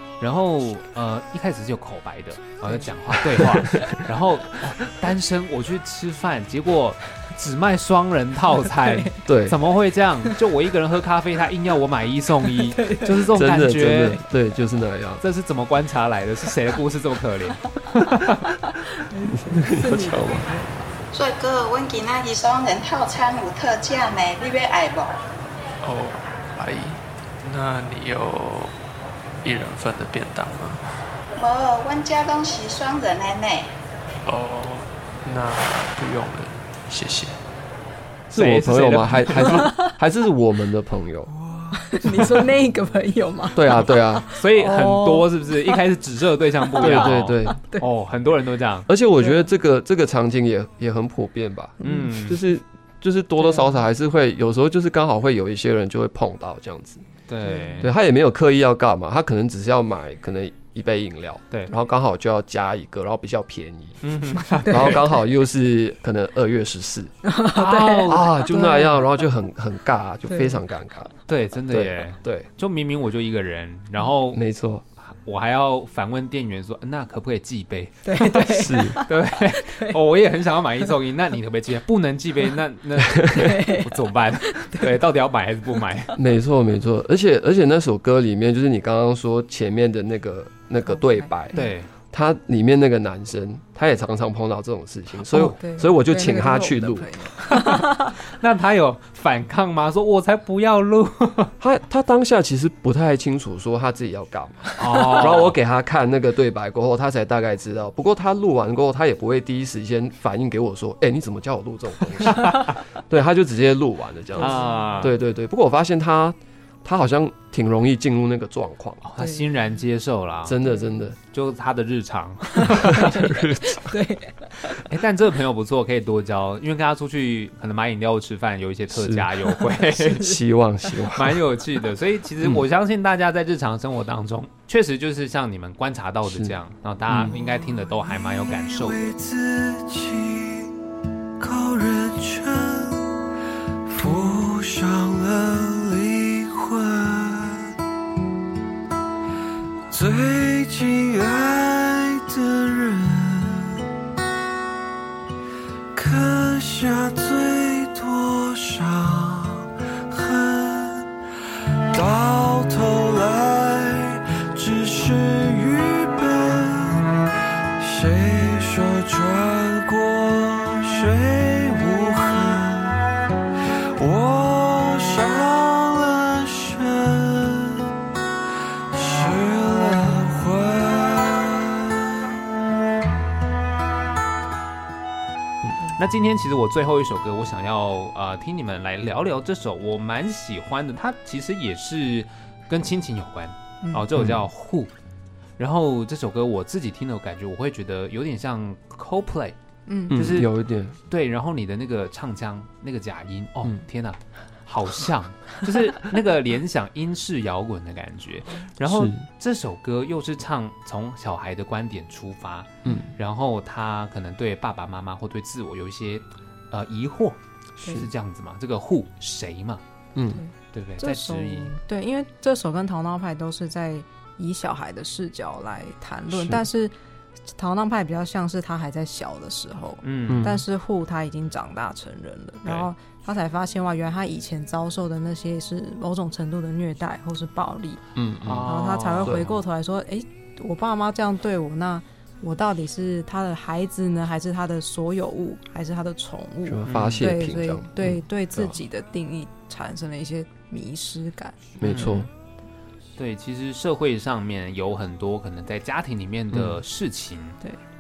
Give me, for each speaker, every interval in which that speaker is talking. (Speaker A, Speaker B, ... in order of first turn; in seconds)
Speaker A: 0.2-14.2, 15.2-18.5, 38.3-39.7, 44.3-48.9, 51.8-52.4, 57.3-57.9, 64.0-65.0, 67.5-68.3, 71.3-74.4, 75.0-86.2, 91.5-91.9, 97.5-101.5, 104.8-105.6, 112.4-112.8, 114.4-115.2, 119.0-120.6, 121.3-123.2, 124.7-130.4, 131.1-139.1, 185.9-194.9, 195.6-199.6, 200.1-200.5, 201.1-219.8, 220.7-221.7, 230.0-230.6, 238.4-239.5, 246.9-247.3, 251.8-252.3, 253.2-257.6
Speaker B: 3.3-3.6, 9.3-9.6, 13.3-15.2, 19.3-20.5, 38.3-41.3, 42.1-42.4, 43.5-44.3, 46.8-47.6, 48.9-57.0, 57.8-67.1, 68.1-71.2, 71.7-72.5, 74.3-74.8, 78.4-79.0, 86.2-91.6, 92.1-97.1, 101.6-119.0, 120.5-121.2, 122.6-123.9, 128.9-131.4, 136.3-136.6, 137.1-137.3, 194.2-194.5, 200.1-201.0, 208.8-209.2, 212.8-213.1, 217.8-218.1, 220.2-220.4, 226.3-226.6, 230.3-230.6, 238.2-238.7, 239.2-239.5, 246.7-248.8, 251.8-252.3, 256.5-256.8
Speaker C: 12.7-13.3, 17.8-20.7, 39.4-39.9, 41.8-45.8, 46.6-47.9, 49.2-49.5, 51.8-52.2, 53.4-53.8, 57.5-57.9, 64.4-65.0, 67.2-69.0, 70.3-70.6, 78.0-80.0, 83.3-84.9, 90.9-91.7, 95.3-98.2, 114.4-115.1, 119.2-119.5, 122.6-124.8, 199.9-200.2, 220.3-226.9, 227.5-238.0, 238.6-251.6
Speaker D: 21.1-25.2, 31.4-33.7
Speaker E: 25.8-28.8, 29.4-30.8, 34.3-37.4
Speaker F: 138.2-140.7, 141.4-143.1, 143.8-147.7, 149.9-153.8, 155.9-161.1, 161.9-167.1, 167.8-173.0, 174.0-177.9, 178.9-181.8